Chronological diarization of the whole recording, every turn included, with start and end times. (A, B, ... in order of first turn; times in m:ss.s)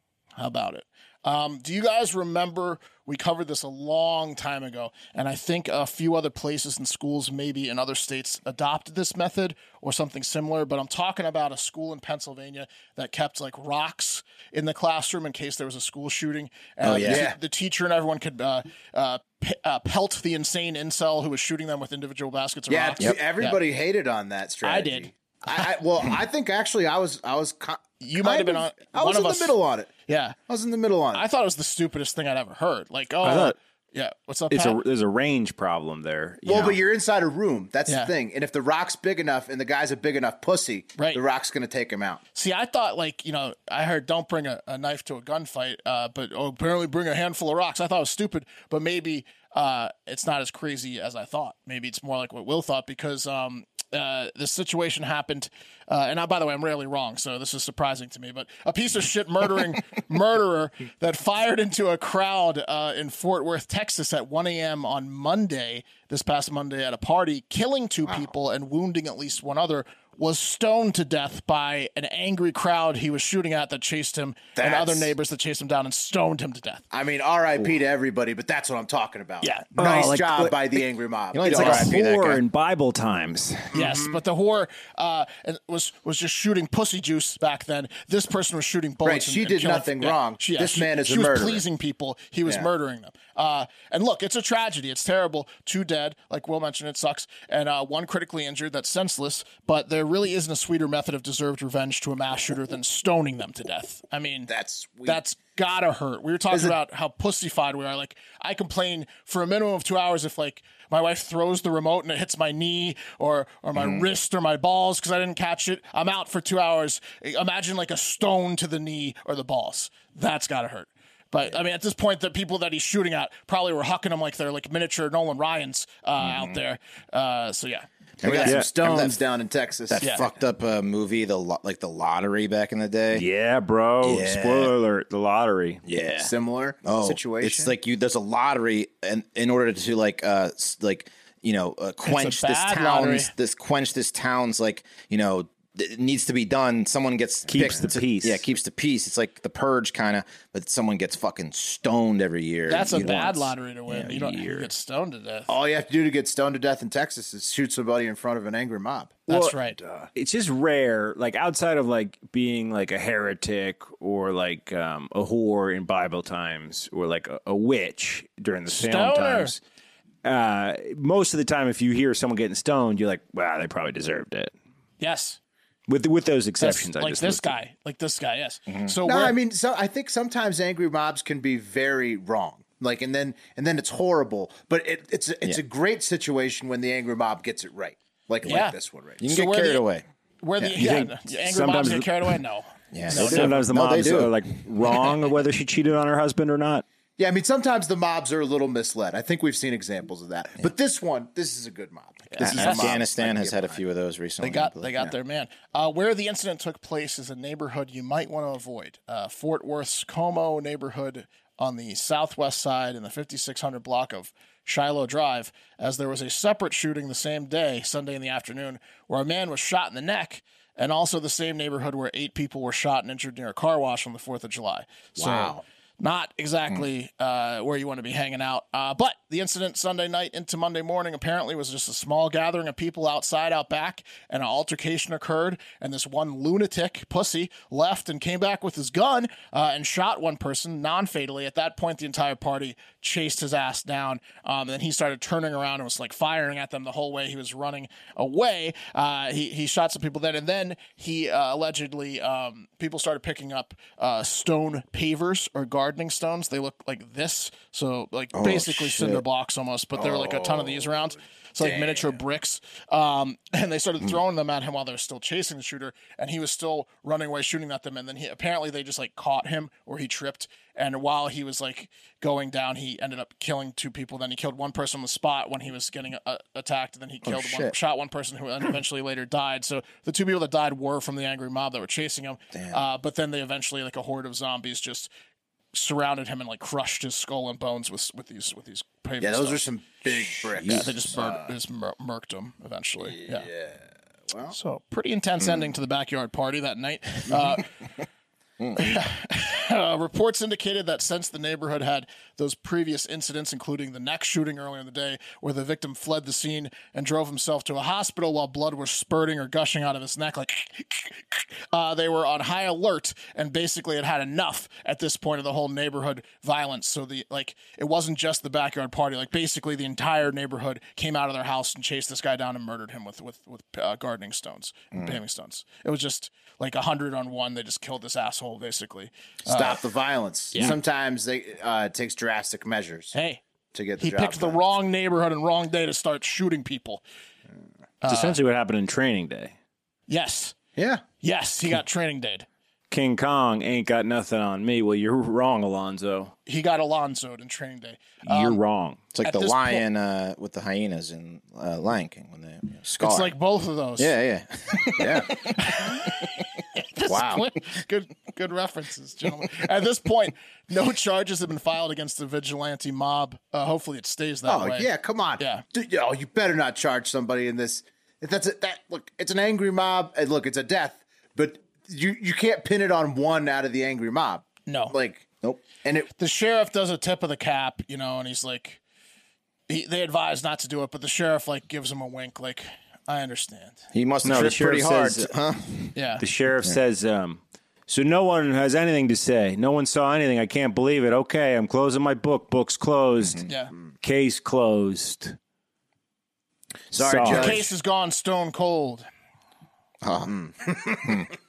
0:00.4-0:23.6 A
0:16.8-0:17.2 B
0:17.0-0:17.4 C
0:22.7-0:29.9 C
0:24.6-0:25.6 A
0:28.0-0:30.4 A
0:30.5-0:31.2 C
0:31.1-0:34.8 A
0:33.2-0:33.6 D
0:34.5-0:36.8 D
0:36.4-0:42.2 C
0:37.9-0:38.1 A
0:42.3-1:16.8 A
1:14.6-1:15.1 C
1:16.9-1:21.9 C
1:19.4-1:19.7 A
1:19.8-1:20.8 D
1:21.3-1:22.4 B
1:21.4-1:23.7 D
1:23.7-1:24.2 C
1:23.7-1:44.5 A
1:29.0-1:31.6 C
1:44.5-1:45.2 C
1:45.0-2:07.9 A
1:53.7-1:54.0 B
2:06.2-2:06.6 B
2:08.2-2:09.2 B
2:08.2-2:10.4 C
2:09.9-2:13.2 B
2:13.1-2:15.8 D
2:14.0-2:14.7 B
2:15.8-2:16.3 B
2:16.2-2:17.7 C
2:16.8-2:33.3 B
2:22.0-2:23.3 A
2:27.5-2:28.4 D
2:32.7-2:35.5 A
2:32.9-2:34.7 D
2:35.5-2:40.1 C
2:39.3-2:39.8 A
2:39.3-2:39.5 D
2:40.1-2:49.6 D
2:48.7-2:49.5 A
2:50.2-2:54.5 D
2:55.0-2:55.4 A
2:55.9-2:57.5 D
2:56.6-2:59.4 A
2:59.0-3:09.2 C
3:08.4-3:09.8 A
3:09.2-3:10.0 B
3:10.4-3:13.5 A
3:10.8-3:12.3 D
3:12.9-3:14.4 B
3:13.1-3:16.8 D
3:17.2-3:23.8 C
3:22.3-3:22.8 A
3:22.4-3:24.9 B
3:22.6-3:23.0 D
3:24.4-4:45.1 A
3:45.2-3:45.6 C
4:18.3-4:19.2 B
4:20.0-4:21.0 C
4:21.6-4:22.2 C
4:37.2-4:37.7 B
4:42.5-4:42.8 B
4:45.7-4:49.6 A
4:49.2-4:51.5 C
4:50.6-4:50.9 B
4:50.6-4:53.5 A
4:53.0-4:54.6 C
4:54.5-4:57.8 A
4:58.7-5:29.8 A
5:29.4-5:33.1 C
5:33.1-5:33.4 A
5:33.7-5:34.6 C
5:34.0-5:37.0 A
5:38.0-5:38.4 A
5:38.1-5:39.5 D
5:40.1-5:40.6 A
5:40.8-5:41.0 C
5:41.2-5:42.4 A
5:42.9-5:46.3 D
5:46.4-5:48.6 A
5:48.2-5:49.0 D
5:49.1-5:53.3 B
5:49.2-5:49.8 A
5:53.0-5:54.1 A
5:54.0-5:56.2 B
5:55.0-5:55.3 C
5:55.3-6:05.6 A
5:57.1-5:57.4 C
6:04.4-6:15.3 C
6:14.6-6:14.9 A
6:15.8-6:16.1 C
6:16.2-6:18.8 A
6:19.7-6:23.8 A
6:23.9-6:25.9 B
6:24.2-6:25.3 D
6:25.9-6:26.2 A
6:26.2-6:33.4 D
6:33.4-6:33.7 A
6:34.0-6:35.4 D
6:36.9-6:37.6 D
6:36.9-6:37.7 C
6:37.2-6:39.1 A
6:40.0-6:40.3 B
6:40.9-6:41.3 B